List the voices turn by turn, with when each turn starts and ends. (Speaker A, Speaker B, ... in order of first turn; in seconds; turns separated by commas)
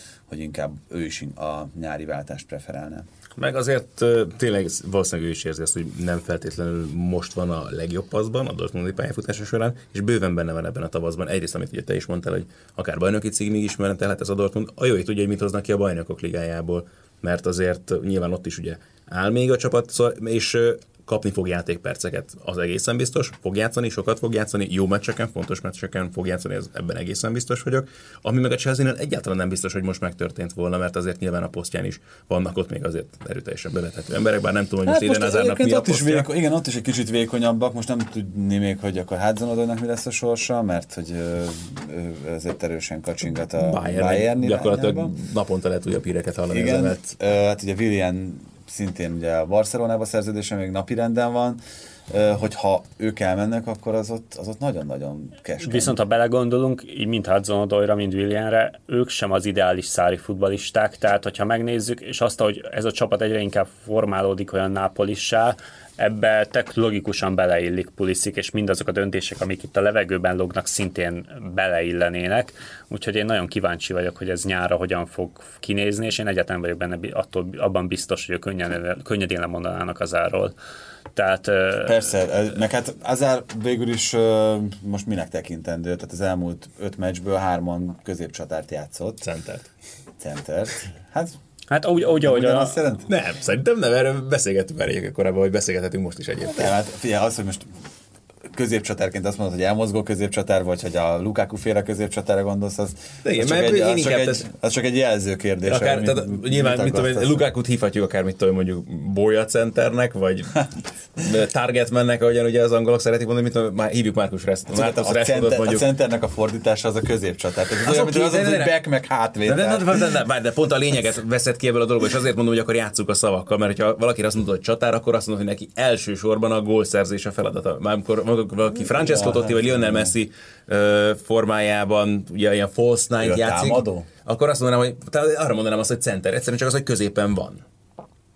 Speaker A: 0.3-3.1, Speaker B: 3.4-36.3, Speaker A: 34.9-45.1, Speaker B: 43.6-47.0, Speaker A: 46.5-56.0, Speaker C: 55.6-80.5, Speaker C: 81.2-82.0, Speaker A: 81.8-89.2, Speaker B: 89.2-89.7, Speaker A: 90.2-91.4, Speaker C: 91.7-92.8, Speaker A: 92.1-93.1, Speaker B: 93.1-96.7, Speaker A: 96.5-97.7, Speaker A: 98.5-107.4, Speaker B: 103.2-104.5, Speaker B: 105.7-115.9, Speaker A: 114.7-120.1, Speaker B: 117.8-118.8, Speaker B: 119.4-137.6, Speaker A: 128.8-130.1, Speaker A: 133.2-134.1